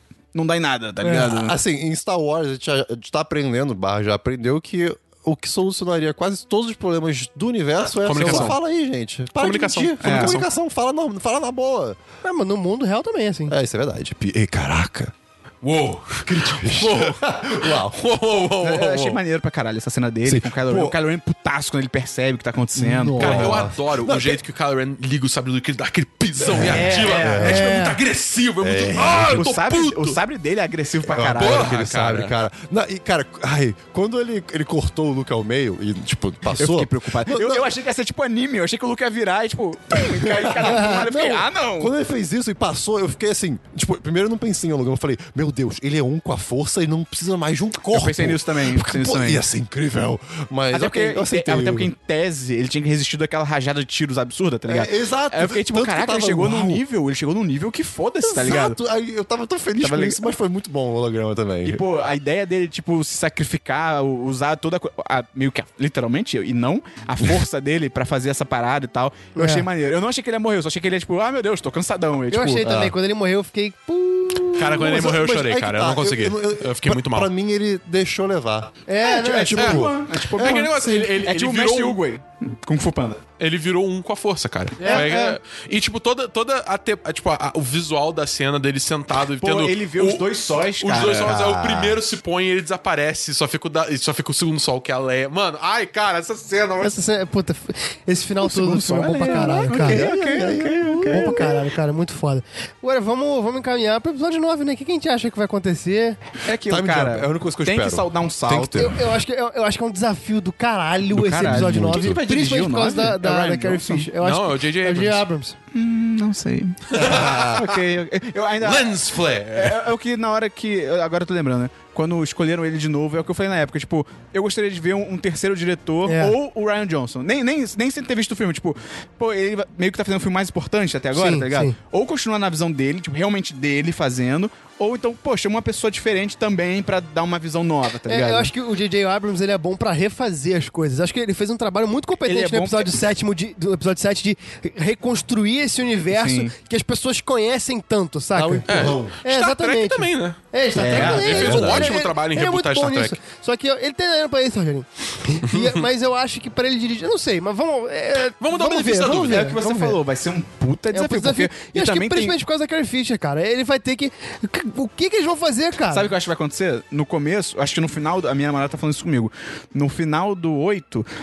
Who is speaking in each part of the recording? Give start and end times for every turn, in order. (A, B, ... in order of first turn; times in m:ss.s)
0:00.3-0:01.6 A
0:01.0-0:01.3 B
0:01.2-0:12.0 C
0:08.0-0:08.6 D
0:08.2-0:08.5 A
0:09.4-0:10.5 D
0:10.0-0:10.4 A
0:12.2-0:13.6 B
0:13.5-0:15.1 C
0:15.6-0:19.2 D
0:16.2-0:18.0 C
0:18.6-0:23.6 A
0:20.2-0:21.0 C
0:22.8-0:24.4 C
0:23.2-0:30.2 D
0:26.4-0:27.6 C
0:26.6-0:27.6 A
0:27.4-0:28.0 B
0:28.6-0:29.5 C
0:29.3-0:31.7 A
0:31.0-0:37.7 C
0:31.3-0:32.3 D
0:36.5-0:41.9 A
0:39.9-0:51.9 C
0:40.6-0:41.1 B
0:47.9-0:49.4 A
0:50.7-0:58.8 A
0:54.7-0:56.8 C
0:58.2-1:01.8 C
0:59.8-1:00.3 A
1:01.6-1:12.7 A
1:09.4-1:09.7 B
1:12.3-1:15.0 B
1:12.6-1:13.0 C
1:14.5-1:17.3 D
1:14.6-1:18.7 C
1:18.9-1:19.8 B
1:19.0-1:23.2 A
1:19.3-1:21.0 C
1:19.6-1:22.0 D
1:23.4-1:37.0 D
1:24.8-1:25.4 A
1:24.8-1:25.1 B
1:29.4-1:31.4 A
1:31.1-1:32.0 C
1:36.8-1:40.1 B
1:38.4-1:41.6 A
1:39.2-1:41.7 C
1:41.1-1:46.2 B
1:46.4-1:48.9 A
1:46.7-1:49.1 C
1:48.8-1:55.6 B
1:51.1-1:54.1 A
1:51.4-1:52.2 C
1:54.2-1:55.2 D
1:55.7-1:59.0 A
1:56.9-1:57.4 D
1:57.0-1:57.7 C
1:58.6-1:59.8 D
1:59.5-2:18.5 A
2:06.1-2:06.4 B
2:11.1-2:11.7 B
2:18.1-2:28.7 B
2:22.2-2:22.9 A
2:26.1-2:26.5 A
2:28.3-2:29.2 C
2:28.7-2:33.2 D
2:29.2-2:40.0 B
2:30.8-2:32.0 C
2:30.8-2:31.7 A
2:35.4-2:35.9 D
2:38.4-2:39.6 D
2:39.2-2:42.4 A
2:40.9-2:46.1 B
2:45.9-2:51.1 A